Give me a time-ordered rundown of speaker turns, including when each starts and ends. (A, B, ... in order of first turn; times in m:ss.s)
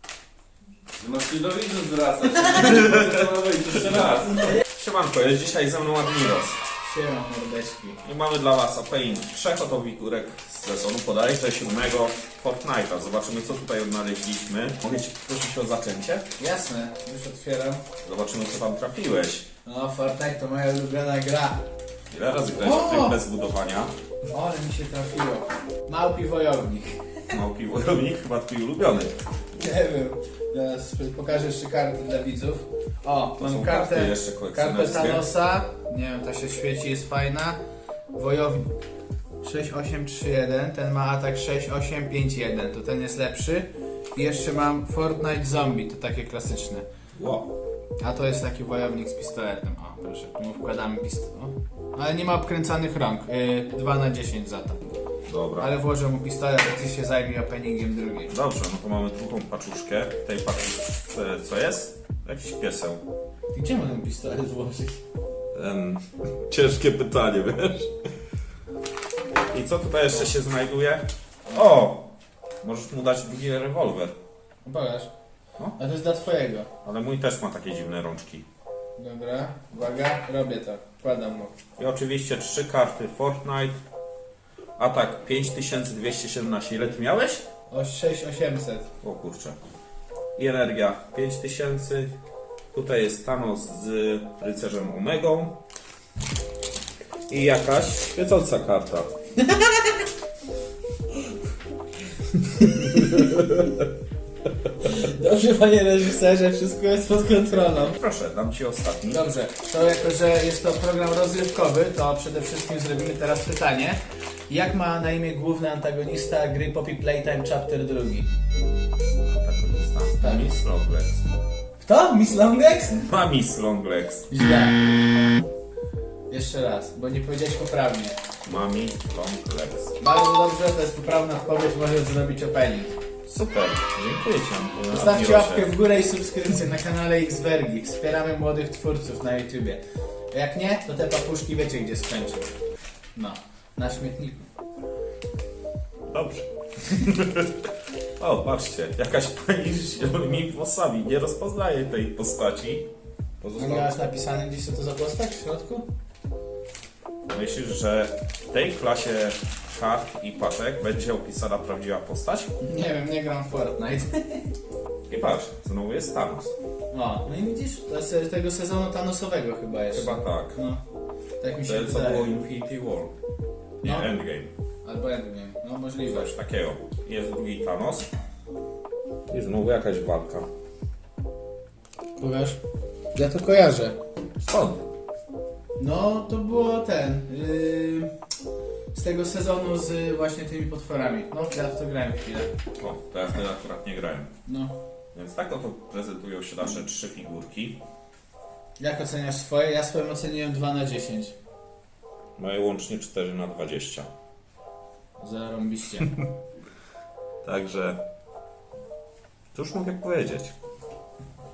0:00.9-0:04.2 A
0:02.4-0:06.6 B
0:06.8-0:08.0 C
0:08.0-0:16.3 B
0:16.4-0:17.8 C
0:18.0-0:19.5 B
0:19.6-0:21.7 C
0:22.1-0:23.9 B
0:22.5-0:23.2 C
0:24.3-0:27.4 C
0:27.3-0:29.1 B
0:29.6-0:37.6 C
0:33.4-0:35.3 B
0:38.1-0:38.7 C
0:39.4-0:46.8 C
0:47.2-0:47.5 B
0:48.0-0:54.8 C
0:55.3-0:55.7 B
0:55.6-0:58.3 C
0:58.3-1:03.0 B
1:03.5-1:05.0 C
1:05.5-1:07.9 B
1:09.5-1:12.1 B
1:12.6-1:14.2 B
1:14.6-1:15.1 C
1:15.8-1:16.7 C
1:16.8-1:18.4 B
1:19.0-1:21.6 C
1:21.8-1:23.8 B
1:24.8-1:27.4 B
1:27.7-1:28.8 C
1:29.0-1:29.6 B
1:30.4-1:32.1 B
1:32.7-1:35.6 B
1:37.3-1:39.1 B
1:39.5-1:40.0 C
1:42.5-1:43.6 C
1:44.8-1:48.0 C
1:47.5-1:49.2 B
1:49.1-1:54.0 C
1:54.5-1:58.3 C
1:59.2-2:01.2 B
2:00.2-2:00.5 C
2:01.8-2:03.1 C
2:03.0-2:04.3 B
2:04.3-2:04.9 C
2:06.3-2:08.2 C
2:08.4-2:10.0 B
2:10.0-2:13.0 C
2:13.2-2:15.7 B
2:14.9-2:22.5 C
2:23.2-2:24.4 C
2:26.1-2:27.5 B
2:28.2-2:32.9 B
2:33.4-2:33.9 B
2:33.5-2:35.9 C
2:37.3-2:42.5 B
2:42.6-2:44.5 C
2:45.1-2:46.5 B
2:46.9-2:50.8 C
2:49.9-2:50.6 B
2:51.4-2:52.4 C
2:51.6-2:53.1 B
2:53.8-2:54.1 C
2:53.8-2:54.5 B
2:54.8-2:56.3 C
2:56.1-2:58.1 B
2:59.3-3:00.5 B
3:02.2-3:02.6 C
3:03.1-3:04.0 C
3:04.4-3:04.8 B
3:05.8-3:08.1 C
3:08.9-3:12.5 C
3:12.8-3:14.3 B
3:14.5-3:14.7 C
3:15.1-3:17.8 B
3:18.8-3:21.3 C
3:22.4-3:24.1 B
3:25.2-3:26.1 C
3:27.4-3:28.0 B
3:29.5-3:30.5 B